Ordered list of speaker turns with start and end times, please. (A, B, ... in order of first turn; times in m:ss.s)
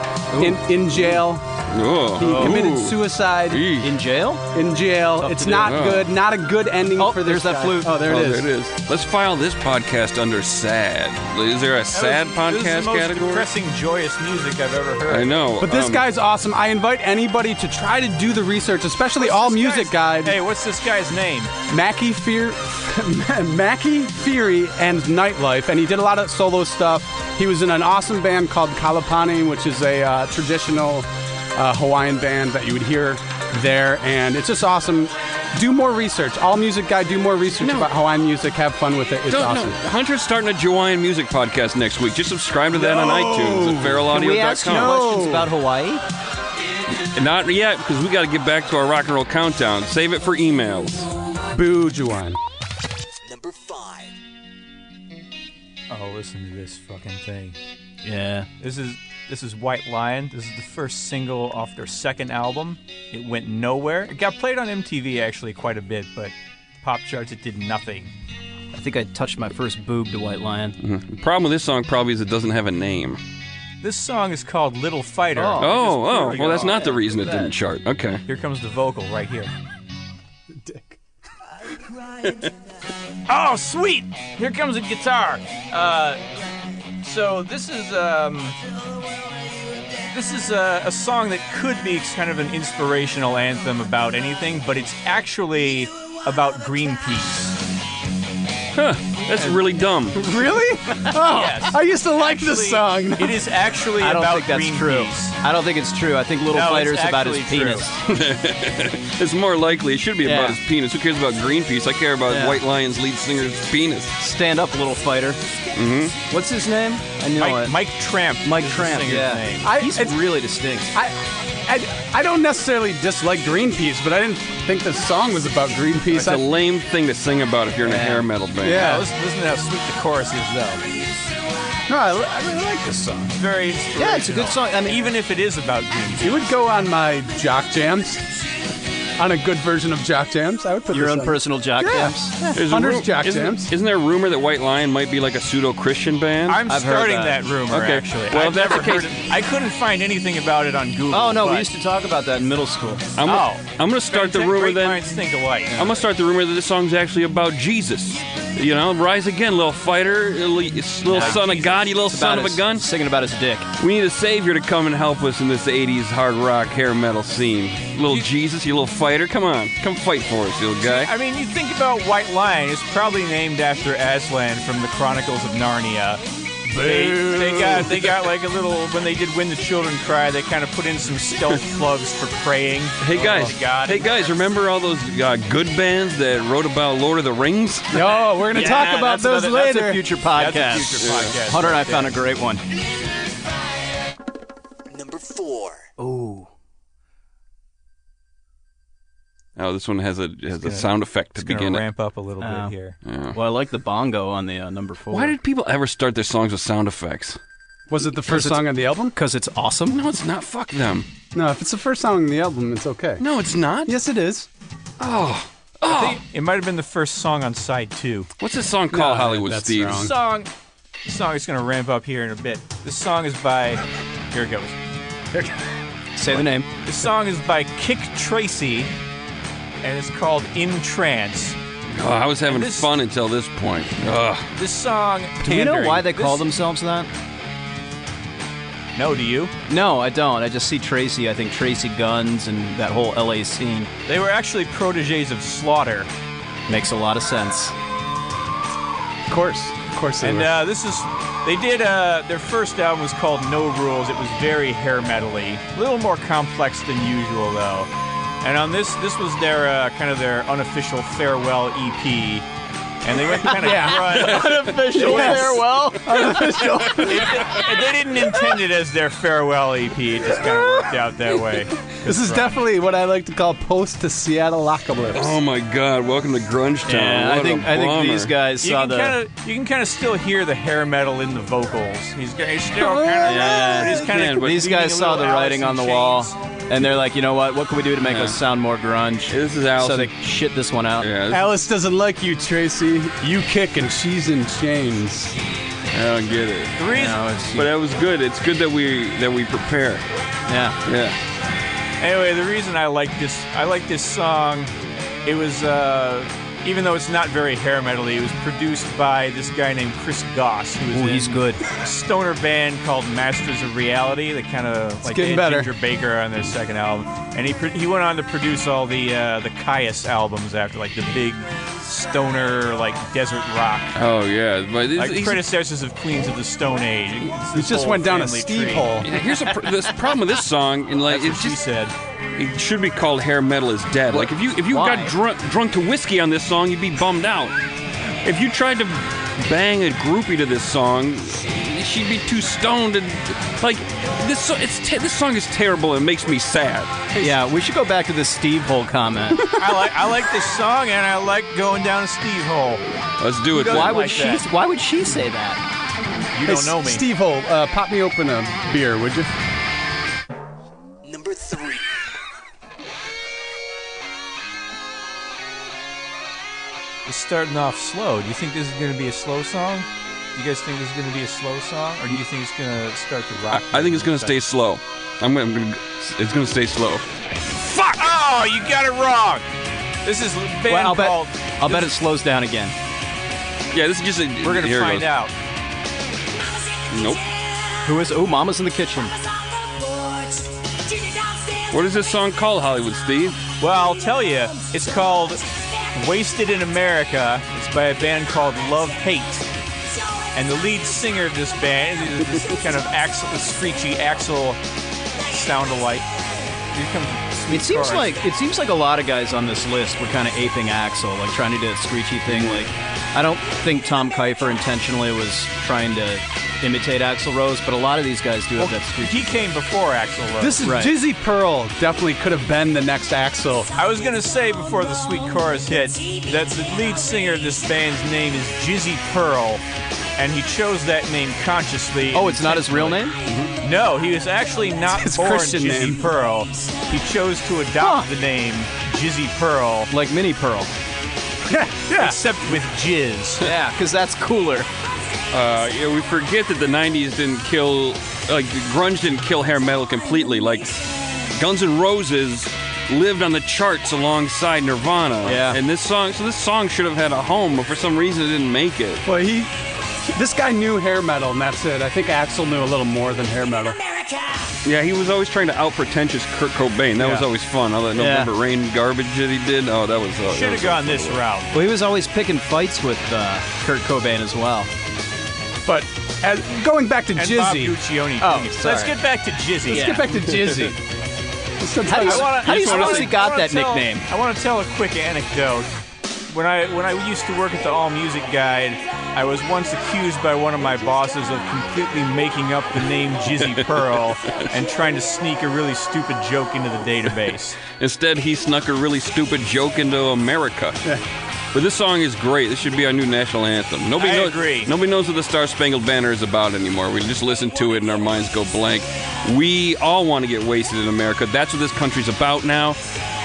0:00.3-0:00.6 A
0:00.4-0:01.5 B
0:01.7-0:03.9 C
0:02.2-0:03.7 B
0:02.2-0:02.6 A
0:03.8-0:04.4 A
0:04.5-0:08.5 B
0:05.2-0:05.8 A
0:05.6-0:06.1 C
0:07.0-0:08.0 A
0:08.0-0:13.5 C
0:11.9-0:15.5 D
0:15.1-0:16.0 C
0:15.6-0:20.4 B
0:19.2-0:21.5 D
0:21.7-0:39.8 B
0:37.6-0:37.9 C
0:39.3-0:45.1 C
0:42.7-0:45.5 B
0:44.1-0:46.0 A
0:47.1-0:51.1 C
0:51.5-0:52.4 B
0:53.2-0:54.2 E
0:55.9-0:57.6 D
0:58.0-0:58.5 A
0:58.6-1:08.1 D
1:08.7-1:10.8 A
1:10.8-1:13.2 C
1:13.8-1:17.0 D
1:15.4-1:17.5 A
1:15.6-1:18.2 C
1:18.3-1:19.5 D
1:20.6-1:21.0 B
1:23.3-1:26.2 D
1:27.0-1:28.6 D
1:30.1-1:37.6 D
1:38.7-1:40.3 C
1:40.1-1:43.4 B
1:41.2-1:45.4 D
1:44.0-1:48.0 A
1:46.5-1:48.0 D
1:48.0-1:54.2 C
1:50.2-1:50.6 A
1:52.3-1:52.6 A
1:54.2-1:55.4 A
1:55.7-1:56.2 C
1:56.3-1:57.8 A
1:57.4-1:59.7 D
1:58.4-2:00.9 A
1:59.6-2:00.2 B
2:00.9-2:06.5 B
2:06.1-2:09.0 C
2:07.8-2:08.3 A
2:08.6-2:09.1 B
2:08.7-2:10.8 D
2:11.9-2:13.4 B
2:13.3-2:16.5 D
2:14.0-2:15.1 A
2:16.2-2:18.3 B
2:19.2-2:23.7 B
2:20.9-2:22.6 A
2:22.5-2:26.6 C
2:26.5-2:31.7 D
2:26.7-2:27.5 A
2:27.7-2:29.2 C
2:31.1-2:33.0 A
2:33.2-2:35.0 C
2:33.2-2:35.9 D
2:35.7-2:42.9 C
2:41.1-2:41.8 D
2:41.1-2:41.4 A
2:42.0-2:43.7 A
2:43.8-2:51.1 C
2:50.8-2:56.2 D
2:56.7-2:57.9 B
2:56.8-3:04.4 D
2:57.2-2:58.2 C
3:03.0-3:08.1 C
3:07.9-3:10.1 B
3:08.5-3:12.6 A
3:10.3-3:12.2 D
3:11.0-3:11.4 C
3:14.9-3:15.8 E
3:16.0-3:16.5 A
3:19.6-3:21.8 C
3:20.6-3:23.0 D
3:22.4-3:22.7 A
3:23.0-3:23.4 C
3:23.3-3:25.4 A
3:25.1-3:27.4 C
3:27.9-3:29.2 B
3:28.3-3:30.0 A
3:29.9-3:31.1 C
3:31.3-3:33.2 B
3:33.2-3:33.9 C
3:33.8-3:34.5 B
3:35.0-3:36.2 C
3:35.9-3:38.3 D
3:38.4-3:40.1 C
3:38.9-3:40.1 B
3:39.9-3:40.5 D
3:41.0-3:44.8 D
3:46.2-3:46.7 A
3:46.8-3:48.9 D
3:49.8-3:51.6 D
3:51.9-3:54.5 C
3:52.5-3:52.9 D
3:54.6-3:56.4 D
3:55.4-3:57.1 A
3:59.0-3:59.5 D
3:59.7-4:03.9 A
4:04.1-4:06.1 D
4:06.7-4:07.8 A
4:09.3-4:10.6 B
4:10.2-4:17.9 D
4:18.4-4:22.5 D
4:23.0-4:25.6 D
4:23.5-4:24.2 B
4:23.6-4:26.7 A
4:25.0-4:27.5 B
4:26.9-4:32.6 D
4:32.0-4:35.4 B
4:35.1-4:38.3 C
4:36.9-4:39.2 A
4:38.6-4:46.4 D
4:42.8-4:43.9 B
4:43.2-4:51.1 A
4:43.9-4:44.7 C
4:48.0-4:48.4 C
4:49.3-4:50.1 C
4:51.0-4:51.5 C
4:51.3-4:55.4 B
4:55.9-4:56.8 C
4:56.8-4:57.2 D
4:56.9-4:57.7 A
4:57.6-5:00.0 C
5:00.5-5:00.8 A
5:00.8-5:01.2 C
5:02.0-5:04.7 D
5:05.2-5:24.0 D
5:10.9-5:11.6 A
5:15.0-5:15.7 B
5:24.0-5:25.5 C
5:25.0-5:28.9 D
5:27.5-5:29.1 B
5:29.0-5:31.6 C
5:31.1-5:31.9 D
5:32.4-5:37.6 C
5:34.1-5:35.1 A
5:38.2-5:46.9 C
5:47.2-5:49.5 A
5:49.3-5:50.0 B
5:49.6-5:52.8 D
5:53.2-5:54.2 C
5:53.5-5:54.4 D
5:53.6-5:55.6 A
5:56.3-5:57.0 D
5:56.4-5:59.3 B
6:01.0-6:02.0 E
6:07.1-6:14.4 D
6:13.5-6:17.1 C
6:17.6-6:18.1 C
6:18.0-6:19.5 D
6:20.0-6:21.9 D
6:20.7-6:22.7 A
6:23.7-6:25.1 C
6:24.4-6:25.3 D
6:26.9-6:27.2 C
6:27.8-6:29.1 A
6:31.7-6:33.4 C
6:33.6-6:39.5 D
6:40.4-6:44.6 D
6:45.2-6:46.1 D
6:46.7-6:48.2 D
6:47.5-6:59.4 A
6:58.6-7:00.7 D
7:00.4-7:03.7 B
7:00.6-7:00.9 A
7:03.8-7:09.6 D
7:10.2-7:13.0 D
7:12.1-7:13.2 A
7:13.6-7:19.9 D
7:14.9-7:16.1 B
7:17.8-7:18.1 A
7:19.9-7:20.7 A
7:21.4-7:22.2 B
7:21.9-7:23.5 D
7:23.4-7:24.7 A
7:25.3-7:39.0 C
7:35.2-7:35.6 A
7:39.0-7:39.5 B
7:40.0-7:43.8 B
7:44.6-7:51.2 C
7:47.0-7:47.2 B
7:48.0-7:48.3 A
7:50.3-7:51.5 D
7:51.5-7:54.7 A
7:55.6-7:59.0 B
7:57.2-8:00.1 D
7:58.5-7:58.8 A
7:59.7-8:00.1 A
7:59.7-8:00.8 B
8:01.6-8:03.1 B
8:01.9-8:04.1 A
8:02.0-8:05.7 D
8:06.3-8:17.6 D
8:17.7-8:20.8 C
8:21.5-8:32.8 C
8:24.0-8:24.7 D